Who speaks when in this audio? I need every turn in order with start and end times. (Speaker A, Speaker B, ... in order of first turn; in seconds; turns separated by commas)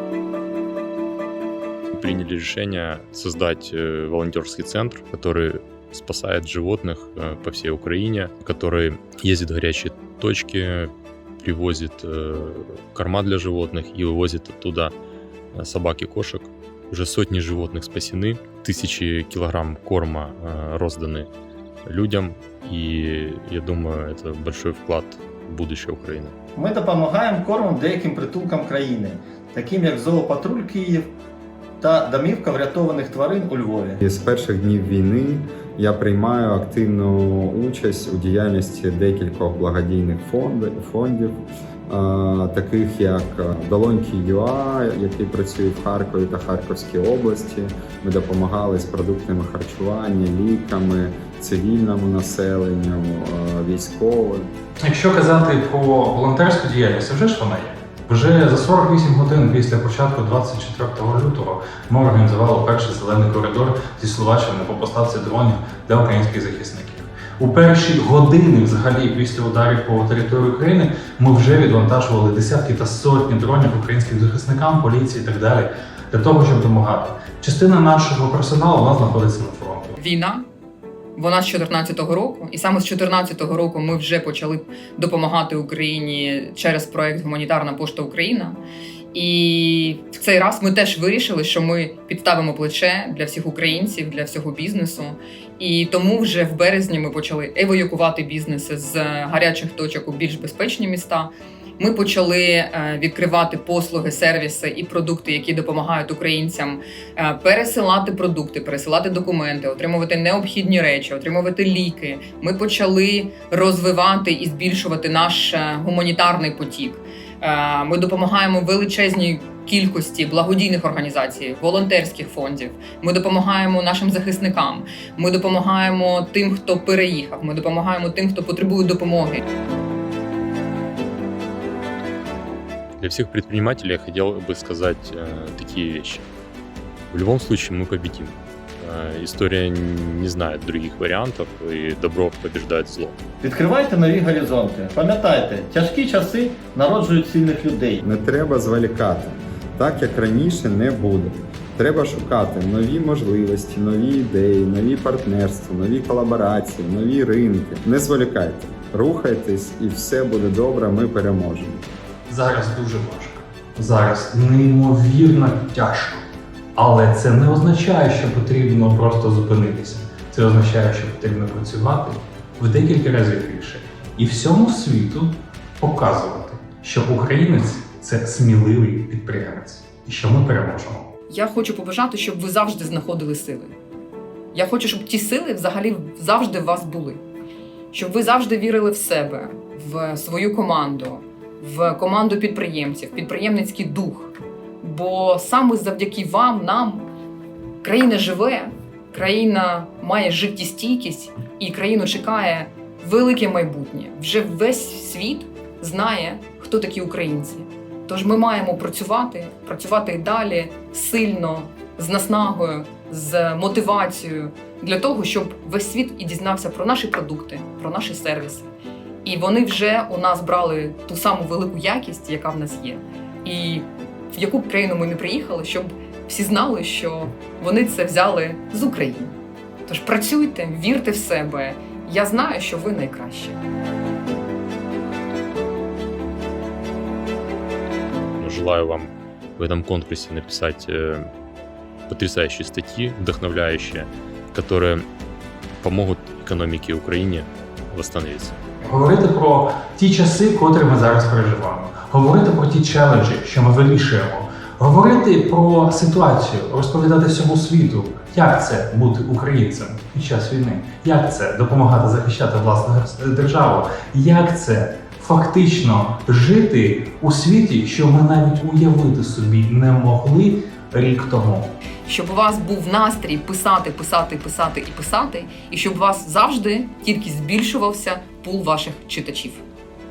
Speaker A: 1.9-14.9, Speaker A: 15.5-21.3, Speaker A: 21.9-26.3, Speaker B: 26.6-31.1, Speaker B: 31.8-34.0, Speaker C: 34.0-54.5, Speaker D: 54.8-80.0, Speaker E: 80.0-80.4, Speaker E: 81.2-88.6, Speaker E: 89.1-129.4, Speaker A: 133.0-136.2, Speaker A: 137.1-143.2, Speaker B: 143.4-148.0, Speaker C: 148.0-161.9, Speaker D: 162.3-166.2, Speaker D: 166.8-181.1, Speaker E: 181.3-183.7, Speaker E: 184.5-187.2, Speaker E: 187.9-197.1, Speaker E: 197.8-218.7, Speaker E: 219.2-229.3, Speaker E: 229.8-233.6, Speaker A: 238.4-241.3, Speaker A: 242.1-245.1, Speaker A: 245.8-248.6, Speaker D: 248.8-271.7, Speaker E: 272.1-279.6